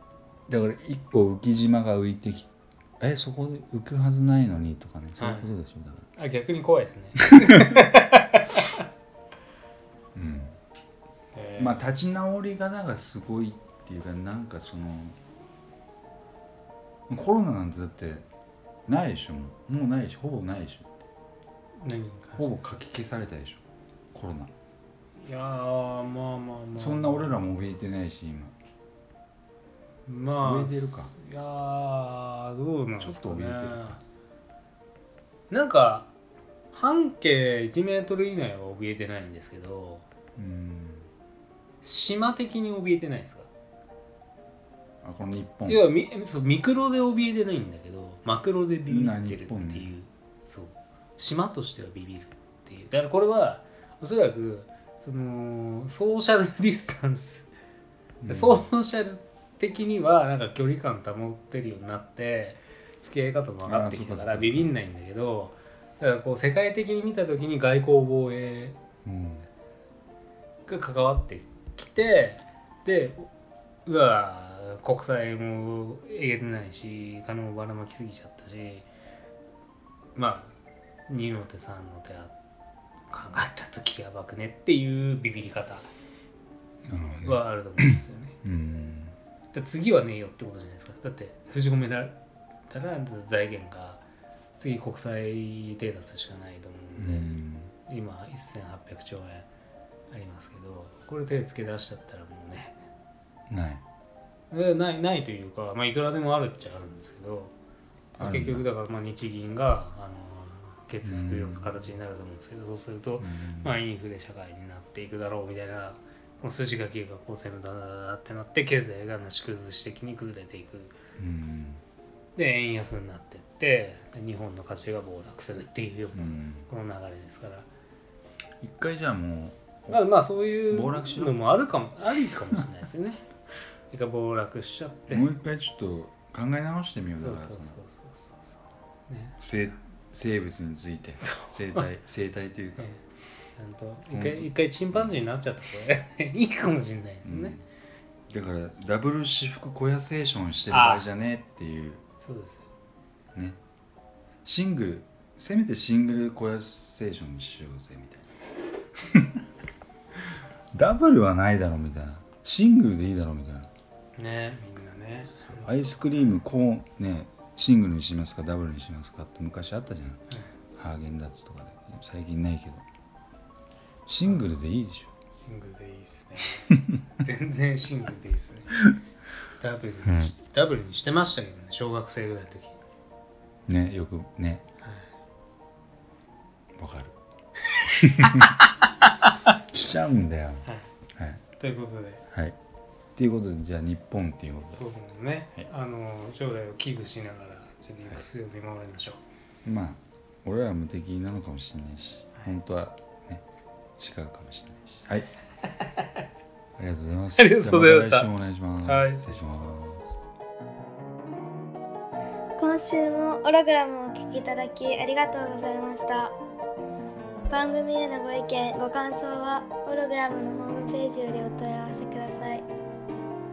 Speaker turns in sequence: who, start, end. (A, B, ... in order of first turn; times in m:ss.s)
0:00.5-0:06.1 A
0:05.2-0:05.5 B
0:06.2-0:08.8 B
0:07.3-0:07.8 A
0:10.2-0:10.6 A
0:11.3-0:11.9 B
0:11.6-0:15.2 A
0:17.1-0:18.3 A
0:18.9-0:21.0 A
0:21.8-0:22.9 B
0:22.4-0:23.6 A
0:24.1-0:24.5 A
0:25.2-0:27.4 B
0:26.8-0:28.5 A
0:30.1-0:34.0 B
0:30.4-0:31.1 A
0:33.0-0:34.0 A
0:35.5-0:36.1 B
0:36.7-0:40.0 B
0:40.4-0:41.1 A
0:41.8-0:43.5 B
0:45.0-0:45.9 A
0:45.7-0:57.5 B
0:48.9-0:49.9 A
0:58.2-0:58.7 A
0:58.3-1:08.8 B
1:03.6-1:04.7 A
1:09.0-1:09.5 A
1:10.7-1:13.3 B
1:13.9-1:18.9 B
1:20.2-1:20.6 B
1:21.1-1:22.3 B
1:23.1-1:25.9 B
1:26.9-1:29.2 A
1:27.0-1:28.4 B
1:29.5-1:32.2 B
1:32.7-1:34.0 B
1:34.6-1:37.3 B
1:37.0-1:37.7 A
1:37.9-1:39.5 B
1:40.1-1:42.8 B
1:43.5-1:43.8 A
1:44.5-1:47.5 B
1:48.2-1:48.6 A
1:48.2-2:00.9 B
1:51.0-1:51.8 A
1:53.2-1:53.8 A
2:01.2-2:01.8 A
2:02.4-2:07.7 B
2:06.1-2:06.7 A
2:08.6-2:10.0 A
2:09.9-2:13.2 B
2:10.7-2:11.4 A
2:13.9-2:15.3 B
2:15.1-2:17.8 A
2:17.2-2:19.4 B
2:19.4-2:22.9 A
2:21.2-2:21.9 B
2:23.6-2:27.6 B
2:24.1-2:25.2 A
2:27.3-2:27.6 A
2:28.3-2:32.0 A
2:30.7-2:31.1 B
2:32.2-2:32.6 B
2:34.4-2:38.3 A
2:39.0-2:39.4 A
2:40.7-2:43.7 A
2:44.2-2:45.7 B
2:45.5-2:50.2 A
2:50.8-2:52.8 A
2:54.1-2:55.1 A
2:55.4-2:58.8 B
2:59.6-3:02.8 B
3:00.1-3:00.3 A
3:03.7-3:04.6 A
3:04.8-3:05.1 B
3:06.8-3:07.1 A
3:07.7-3:08.6 B
3:07.9-3:08.6 A
3:09.7-3:10.7 A
3:11.2-3:11.4 A
3:11.6-3:12.2 B
3:13.2-3:14.8 A
3:14.8-3:19.2 B
3:19.6-3:23.4 A
3:24.0-3:25.3 A
3:26.8-3:30.1 A
3:27.4-3:28.3 B
3:28.8-3:29.4 B
3:32.6-3:36.3 C
3:37.5-3:42.6 C